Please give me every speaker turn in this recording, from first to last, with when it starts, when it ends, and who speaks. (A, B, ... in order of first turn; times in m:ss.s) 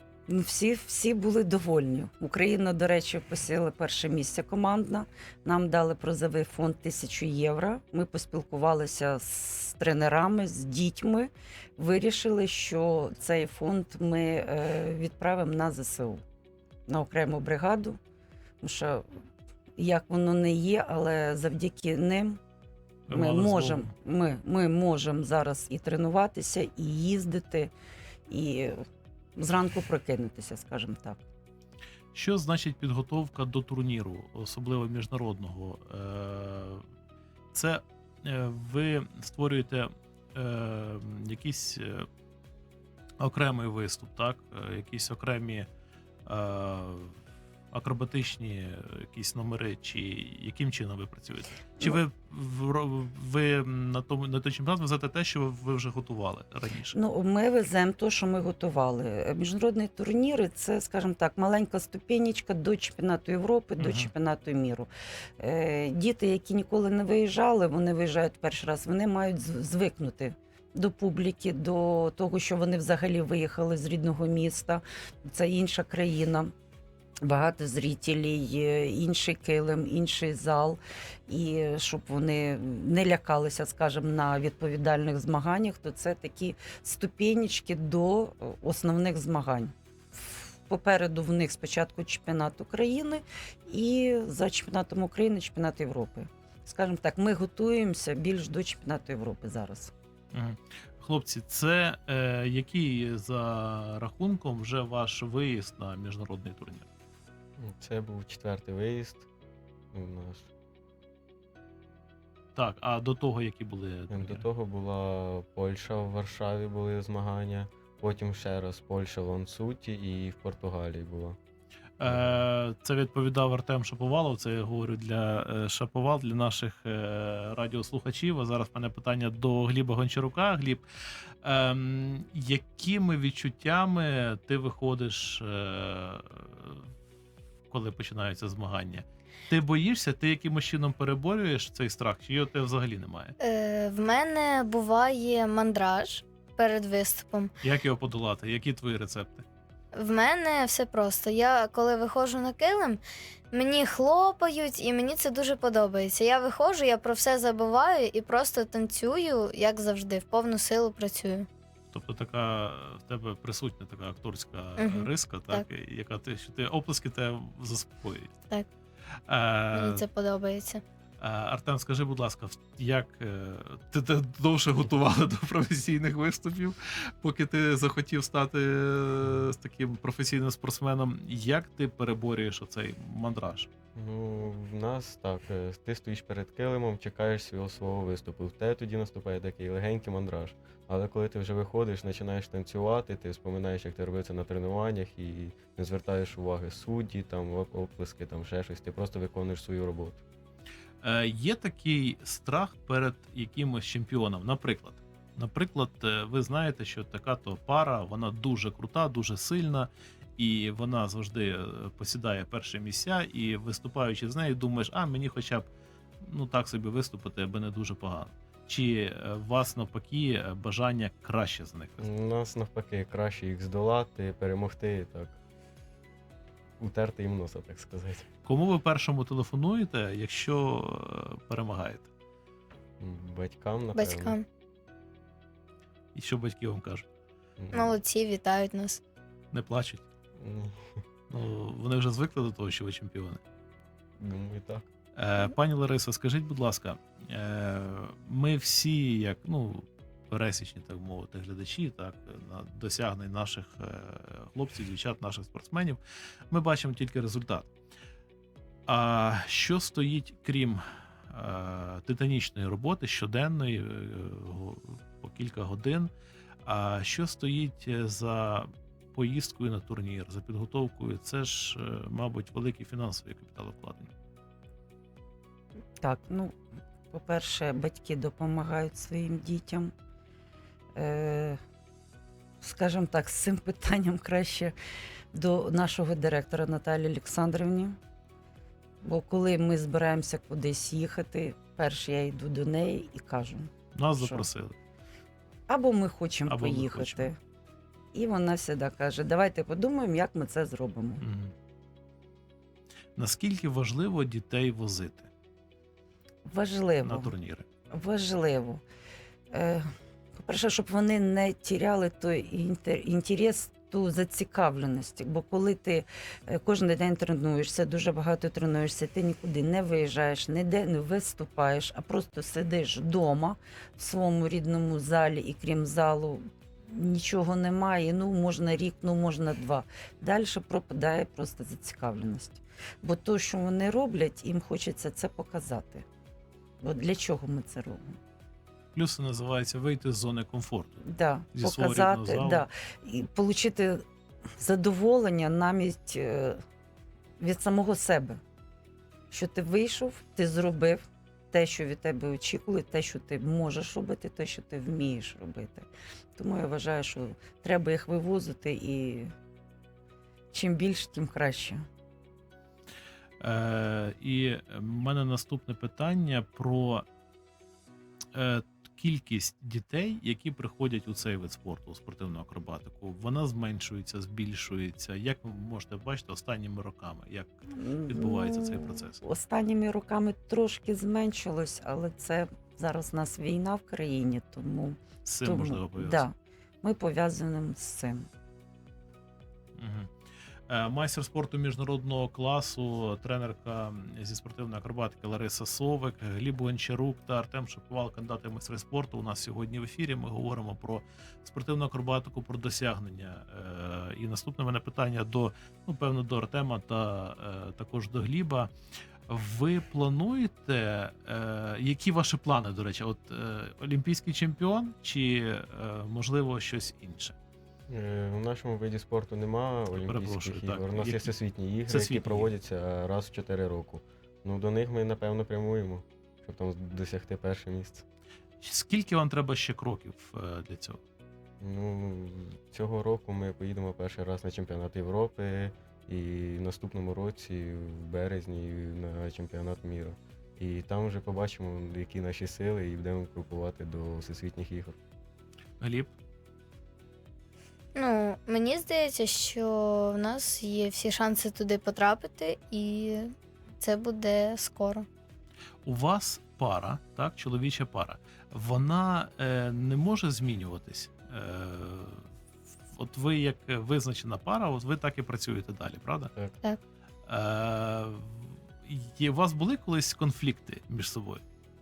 0:00.3-0:16.2 A
0:16.9-0:18.0 A
0:18.6-0:19.1 A
0:19.8-0:22.4 A
0:23.1-0:23.9 B
0:23.1-0:27.7 A
0:28.3-0:28.8 A
0:29.4-0:31.2 A
0:32.1-0:36.8 B
0:37.5-0:42.1 B
0:43.2-0:45.7 B
0:46.3-0:47.2 B
0:47.7-0:57.0 B
0:56.9-1:16.5 A
1:03.8-1:04.1 B
1:17.2-1:39.9 A
1:40.3-1:46.9 B
1:47.6-1:49.2 C
1:49.9-1:50.5 C
1:52.6-1:54.5 B
1:54.1-2:01.4 C
2:02.0-2:10.8 B
2:02.0-2:02.4 C
2:11.4-2:16.9 B
2:17.7-2:23.4 B
2:23.4-2:27.5 D
2:27.6-2:29.4 B
2:30.0-2:33.0 D
2:33.5-2:41.5 D
2:41.9-2:48.4 B
2:44.8-2:45.7 D
2:49.3-2:50.0 B
2:49.7-2:50.8 D
2:51.2-3:03.7 B
3:04.0-3:20.2 C
3:21.0-3:35.7 B
3:36.2-3:42.1 B
3:42.0-3:45.4 C
3:46.8-3:48.3 C
3:48.4-3:52.1 B
3:53.0-3:54.4 C
3:54.0-3:54.4 D
3:56.2-3:57.1 B
3:57.6-3:58.0 C
3:57.7-3:59.0 D
3:59.5-4:00.0 B
4:00.4-4:00.8 C
4:01.3-4:03.4 B
4:04.2-4:04.9 C
4:05.2-4:17.7 B
4:18.9-4:26.1 B
4:26.6-4:34.1 B
4:36.0-4:36.6 A
4:37.1-4:39.9 A
4:41.0-4:41.6 A
4:42.6-4:44.8 A
4:45.3-4:48.0 A
4:49.0-4:54.4 A
4:54.0-4:54.8 B
4:55.7-4:57.4 A
4:56.5-4:57.3 B
4:58.1-5:01.2 A
5:01.2-5:01.5 B
5:03.2-5:05.3 B
5:06.4-5:07.3 A
5:07.0-5:07.6 B
5:07.9-5:08.8 A
5:09.5-5:36.0 A
5:36.8-5:38.2 A
5:38.9-5:41.0 B
5:41.0-5:44.0 A
5:41.5-5:42.7 B
5:44.6-5:46.6 A
5:47.4-5:48.4 A
5:49.3-5:59.3 A
6:00.5-6:01.8 A
6:03.4-6:07.0 B
6:08.3-6:17.5 B
6:17.7-6:28.3 A
6:18.1-6:19.2 B
6:25.2-6:26.3 B
6:29.8-6:30.1 B
6:30.7-6:48.7 B
6:49.3-6:57.4 B
6:57.9-7:08.0 C
6:59.9-7:01.3 B
7:01.9-7:02.5 B
7:08.6-7:11.0 B
7:11.6-7:25.0 C
7:25.8-7:26.1 B
7:28.0-7:35.1 D
7:35.8-7:42.3 B
7:42.9-7:46.3 B
7:47.3-7:51.4 B